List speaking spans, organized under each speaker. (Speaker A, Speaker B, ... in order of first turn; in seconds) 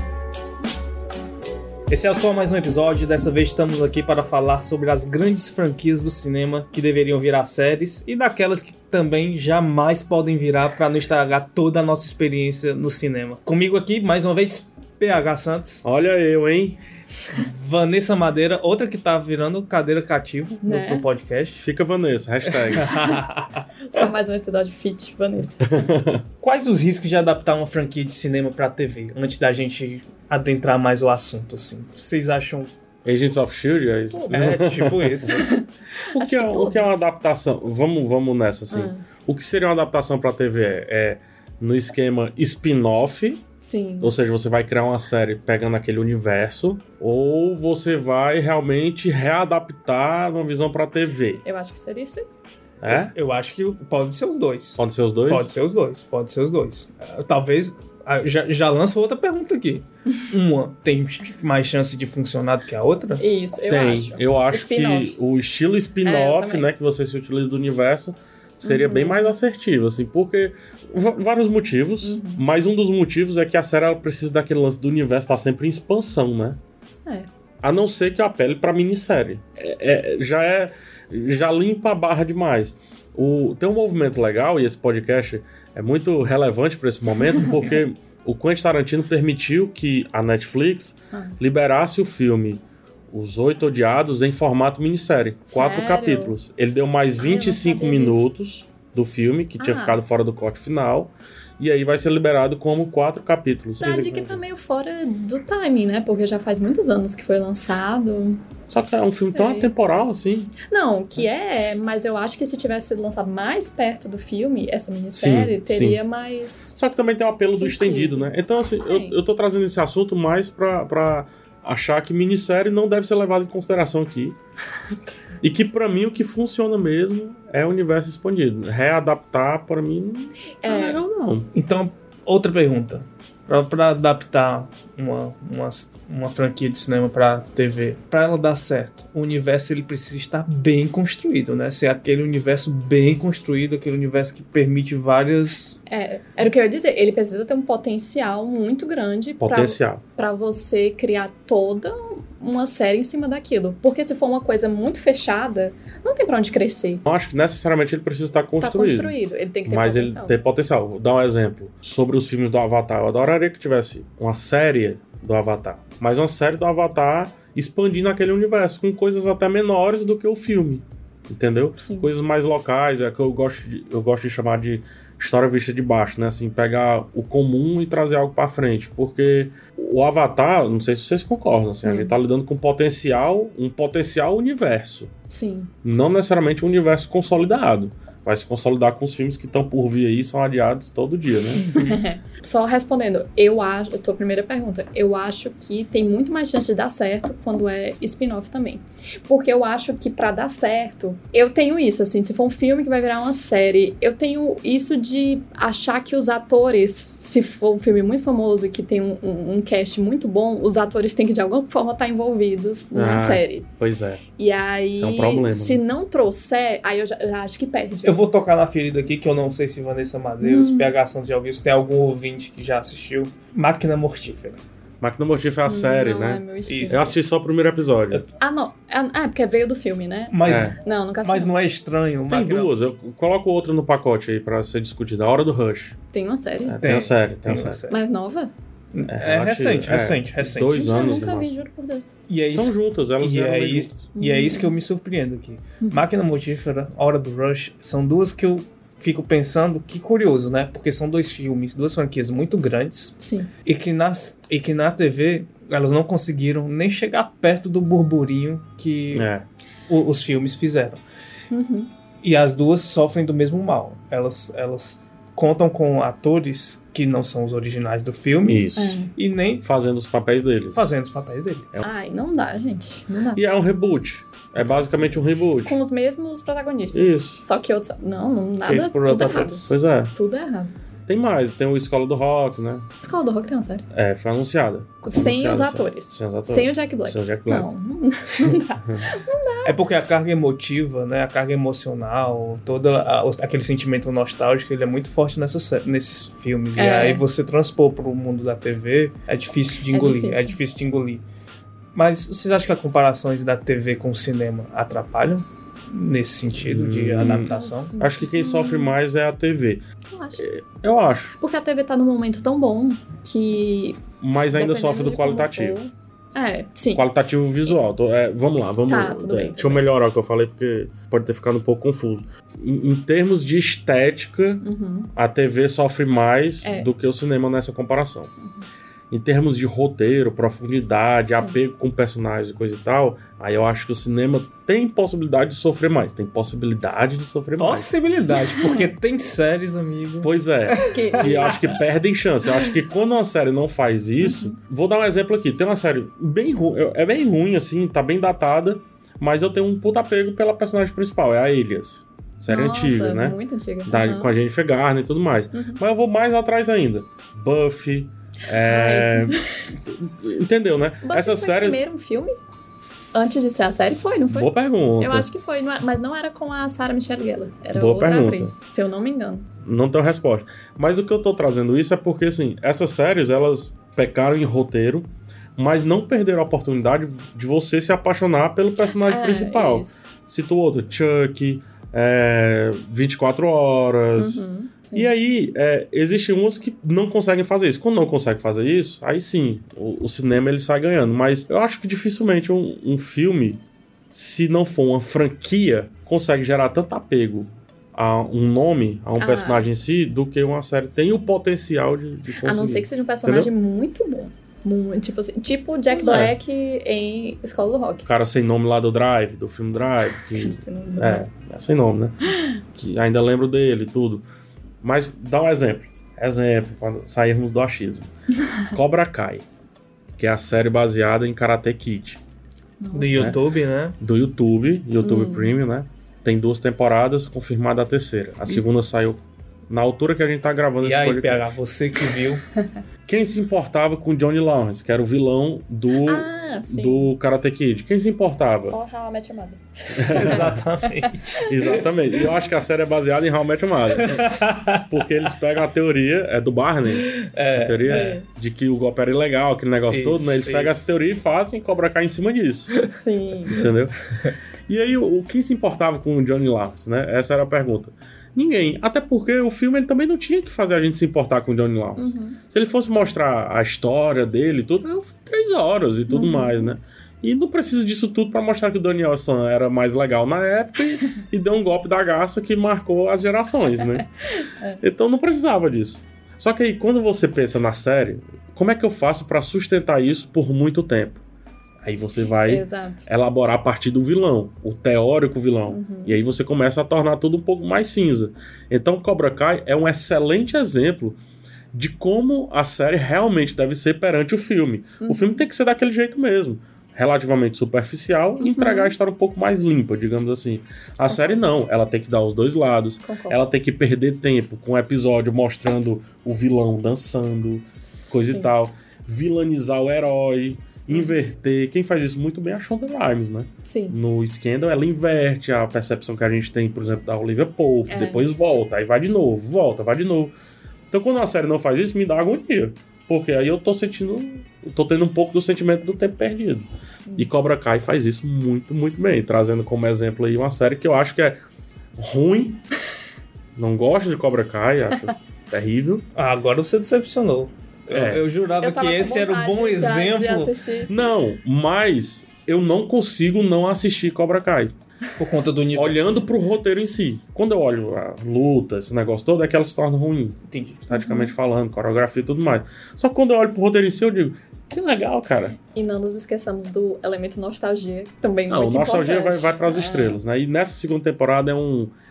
Speaker A: 1.9-15.8, 17.3-21.6, 22.8-23.6, 26.4-32.7, 34.3-35.5, 52.9-63.2, 131.5-145.8, 218.0-224.6, 226.7-227.1, 230.3-232.7, 236.8-238.0, 238.9-241.1, 242.3-259.3, 259.9-261.0, 262.2-269.6, 270.7-271.7, 274.7-275.2, 278.6-279.7, 289.6-301.2, 301.9-307.9, 337.6-341.7, 422.9-423.9, 430.8-432.4, 440.1-441.8, 444.0-444.9, 446.9-448.2, 449.9-450.9, 536.1-540.5, 545.2-546.2, 550.5-550.8
Speaker B: 15.8-16.8, 21.6-23.1, 25.6-26.2, 33.0-35.3, 36.1-43.4, 44.0-51.4, 52.8-53.1, 54.8-55.5, 63.7-76.6, 77.6-104.4, 108.7-110.5, 115.1-116.0, 116.7-124.4, 125.4-131.5, 149.4-150.0, 157.0-185.1, 185.8-191.7, 212.9-214.2, 214.9-215.8, 225.0-228.2, 230.4-230.8, 232.3-235.9, 236.6-237.8, 239.1-241.5, 242.5-244.1, 259.1-259.4, 268.4-269.0, 269.6-270.9, 273.3-275.8, 276.9-277.4, 279.7-280.1, 281.1-282.9, 283.9-287.7, 288.8-289.1, 306.6-309.8, 310.4-311.3, 314.2-315.8, 316.9-328.3, 329.1-337.9, 340.2-361.8, 364.3-365.3, 367.7-368.5, 369.6-403.5, 405.9-406.4, 408.1-414.2, 414.8-418.1, 418.7-419.4, 420.2-422.2, 424.0-431.5, 433.1-438.8, 439.9-440.6, 441.4-452.8, 453.5-453.9, 454.7-474.1, 474.8-481.2, 481.8-491.2, 491.7-520.3, 520.9-531.4, 532.0-532.6, 533.5-536.0, 537.9-538.2, 540.9-544.7, 545.7-555.6, 558.5-561.9
Speaker C: 20.6-21.0, 23.9-25.7, 34.1-34.6, 35.2-37.1, 38.7-39.0, 43.6-44.1, 51.4-52.2, 63.2-65.2, 66.0-66.7, 68.6-69.3, 72.0-72.4, 87.3-87.7, 95.5-96.3, 97.2-98.2, 99.6-100.0, 103.8-109.7, 110.6-116.7, 117.6-119.2, 130.6-131.0, 145.9-157.0, 158.6-160.3, 171.8-172.1, 181.8-182.1, 185.3-185.7, 191.6-213.7, 214.4-218.2, 220.4-220.9, 225.7-227.2, 228.4-231.5, 236.1-236.8, 237.9-238.5, 240.7-242.1, 244.2-244.7, 253.2-253.5, 261.5-261.9, 268.8-269.1, 271.8-273.4, 275.6-280.7, 283.0-283.9, 285.0-289.8, 296.8-297.2, 299.9-300.6, 307.2-308.9, 310.1-310.4, 311.4-314.0, 314.5-317.1, 318.9-319.9, 324.6-325.1, 326.6-326.9, 331.3-331.6, 338.5-338.9, 340.8-341.7, 344.2-344.6, 352.5-354.3, 355.5-355.8, 358.6-359.4, 361.0-362.4, 363.1-369.5, 379.0-380.0, 384.2-385.1, 399.2-399.6, 402.4-408.1, 410.2-411.2, 422.8-423.4, 425.0-425.5, 436.0-437.1, 438.6-440.5, 441.0-441.8, 447.9-448.2, 452.9-453.7, 462.0-462.4, 466.1-466.7, 474.4-474.8, 482.3-483.1, 485.7-486.2, 495.0-495.4, 498.4-498.9, 501.1-501.4, 503.0-503.4, 508.1-508.5, 513.6-514.0, 517.9-518.2, 538.5-540.9, 550.9-551.3, 555.7-560.2